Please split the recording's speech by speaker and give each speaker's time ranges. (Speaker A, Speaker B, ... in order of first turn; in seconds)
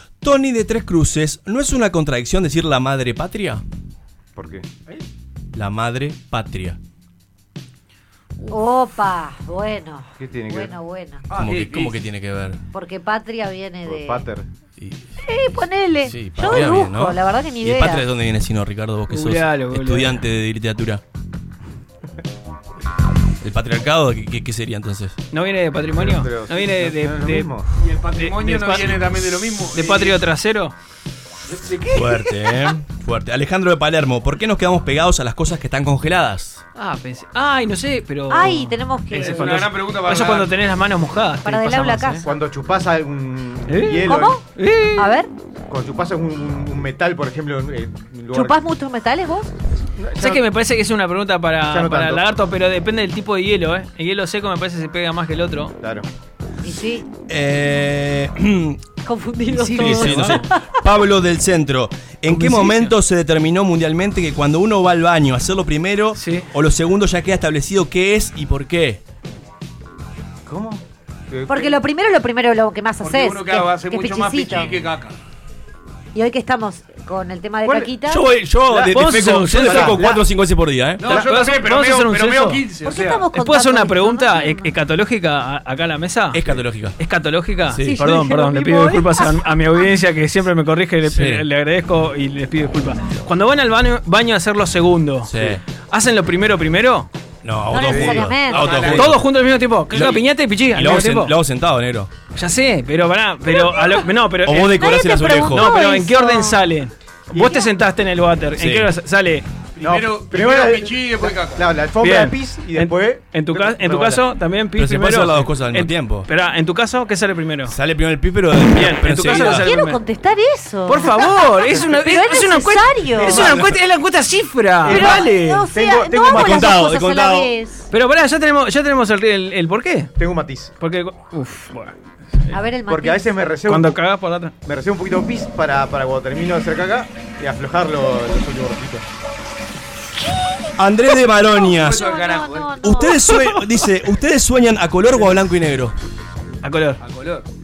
Speaker A: 0.2-3.6, 5.5-6.8, 11.3-12.6, 14.8-21.0, 23.4-25.2, 28.7-29.3, 31.9-36.6, 57.3-58.8, 59.6-69.0, 78.1-81.0, 86.3-87.0, 87.7-88.0, 91.0-91.4, 95.3-95.6, 97.4-99.2, 99.9-100.2, 100.7-102.1, 104.5-105.7, 108.6-108.9, 114.8-116.3, 117.7-119.7, 123.2-123.8, 126.2-127.5, 140.8-142.0, 142.8-145.9
Speaker B: 4.3-4.7, 10.2-10.7, 13.8-14.5, 26.0-27.6, 42.2-44.4, 45.7-48.6, 50.0-50.4, 51.6-52.2, 55.8-56.1, 70.5-71.8, 77.6-77.9, 78.7-80.2, 97.8-98.8, 107.3-107.6, 109.8-114.2, 124.8-126.6, 130.2-130.7, 132.9-134.0, 134.6-139.0
Speaker C: 8.4-11.2, 12.7-14.2, 15.2-18.0, 38.3-39.6, 41.4-42.3, 44.0-44.4, 45.0-45.3, 48.3-49.5, 56.6-57.1, 59.0-60.8, 71.5-74.7, 76.1-78.2, 82.8-84.7, 87.8-89.8, 97.7-98.9, 103.5-104.0, 104.7-106.6, 119.3-123.5, 124.9-127.8, 132.5-133.2, 141.6-143.6
Speaker D: 11.3-11.9, 27.8-30.2, 31.5-32.2, 39.1-40.5, 73.0-75.2, 81.0-83.2, 98.6-99.0, 109.8-111.6, 141.6-142.7, 147.0-147.4
Speaker E: 19.1-20.2, 25.3-27.5, 28.2-28.9, 29.7-30.7, 36.8-42.2, 43.7-45.2, 50.2-55.7, 59.5-60.5, 62.3-62.9, 66.2-66.5, 78.9-80.0, 81.1-82.6, 83.3-86.4, 87.0-95.3, 95.9-97.1, 98.9-101.3, 102.3-104.8, 105.5-109.4, 112.0-117.7, 118.7-120.0, 120.8-125.7, 127.9-130.1, 130.8-132.6, 133.7-134.5, 146.6-147.0